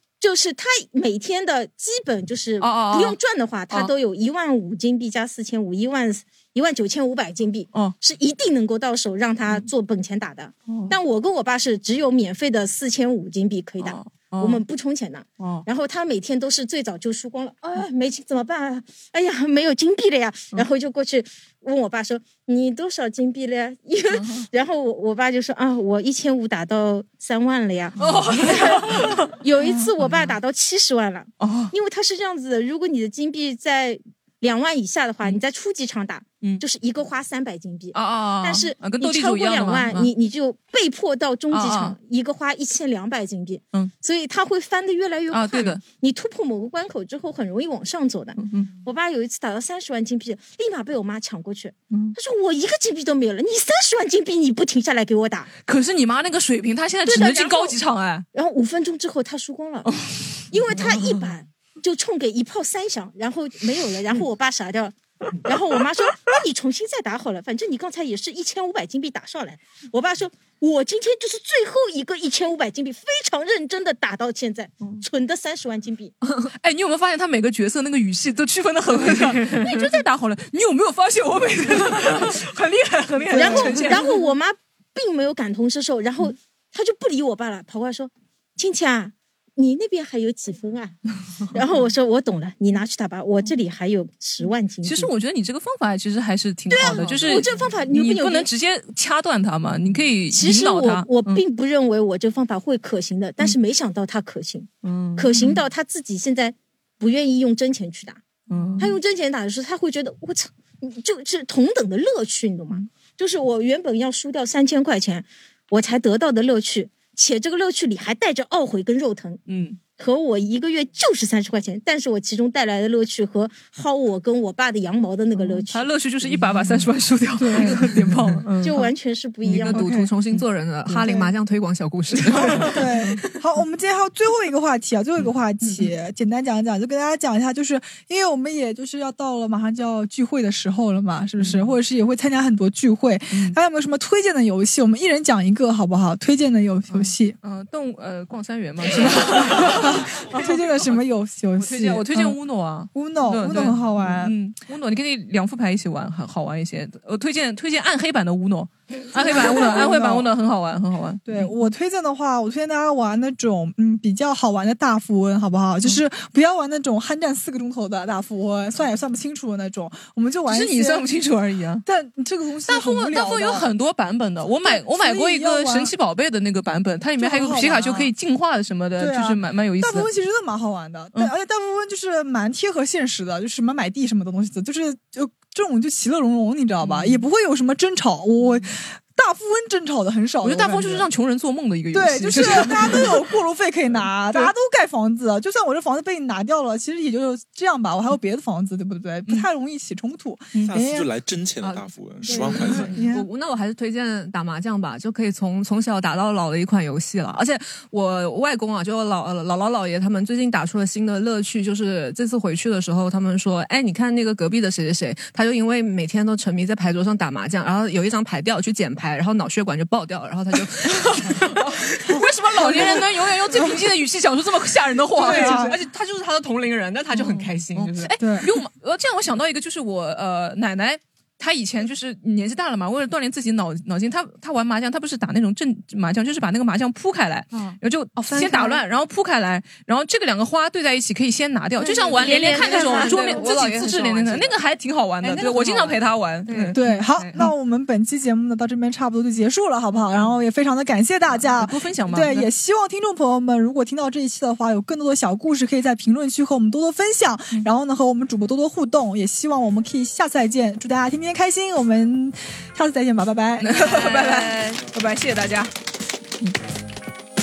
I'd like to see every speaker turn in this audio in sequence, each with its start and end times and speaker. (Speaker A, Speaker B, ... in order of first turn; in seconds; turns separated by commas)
Speaker A: 0.2-55.5, Speaker B: 2.6-3.2, Speaker B: 10.7-10.9, Speaker B: 13.8-14.6, Speaker B: 15.4-15.7, Speaker B: 24.1-24.4, Speaker B: 28.0-30.4, Speaker B: 31.4-31.7, Speaker B: 37.9-40.1, Speaker B: 41.5-42.0, Speaker B: 45.3-45.8, Speaker B: 48.4-48.8, Speaker B: 51.9-52.1, Speaker B: 55.6-58.2, Speaker A: 57.0-57.8, Speaker A: 58.3-59.9, Speaker B: 59.8-60.4, Speaker A: 60.5-76.1, Speaker B: 76.5-84.2, Speaker A: 83.3-91.0, Speaker C: 83.4-83.7, Speaker A: 91.5-95.1, Speaker B: 94.8-101.4, Speaker A: 96.7-98.5, Speaker D: 96.9-97.4, Speaker A: 100.3-108.2, Speaker B: 104.8-105.6, Speaker B: 108.5-109.0, Speaker D: 108.6-108.8, Speaker A: 108.8-119.4, Speaker B: 119.5-119.8, Speaker A: 120.0-125.8, Speaker B: 125.7-128.9, Speaker C: 127.4-128.3, Speaker A: 128.6-129.8, Speaker D: 129.4-132.8, Speaker C: 129.7-130.1, Speaker C: 130.9-131.3, Speaker B: 132.2-132.9, Speaker C: 132.4-147.3, Speaker B: 141.4-141.8, Speaker B: 143.3-143.6, Speaker B: 146.9-150.6, Speaker C: 149.0-152.4, Speaker B: 151.6-161.5, Speaker C: 152.9-154.3, Speaker C: 159.1-160.3, Speaker C: 161.2-171.1, Speaker B: 170.5-171.8, Speaker C: 171.8-173.7, Speaker B: 172.7-180.1, Speaker C: 174.6-175.9, Speaker C: 177.2-178.1, Speaker C: 179.0-191.1, Speaker B: 186.8-187.2, Speaker B: 190.4-193.2, Speaker C: 191.9-201.1, Speaker E: 200.6-202.9, Speaker D: 201.6-222.8, Speaker C: 202.2-203.3, Speaker B: 220.9-225.8, Speaker C: 222.5-223.7, Speaker C: 225.2-225.8, Speaker D: 225.2-228.2, Speaker B: 227.1-246.8, Speaker C: 228.2-228.5, Speaker D: 237.5-237.8, Speaker C: 238.2-238.8, Speaker A: 241.8-243.4, Speaker D: 242.0-244.6, Speaker D: 245.2-247.4, Speaker C: 246.7-264.5, Speaker B: 251.4-252.5, Speaker B: 263.6-265.7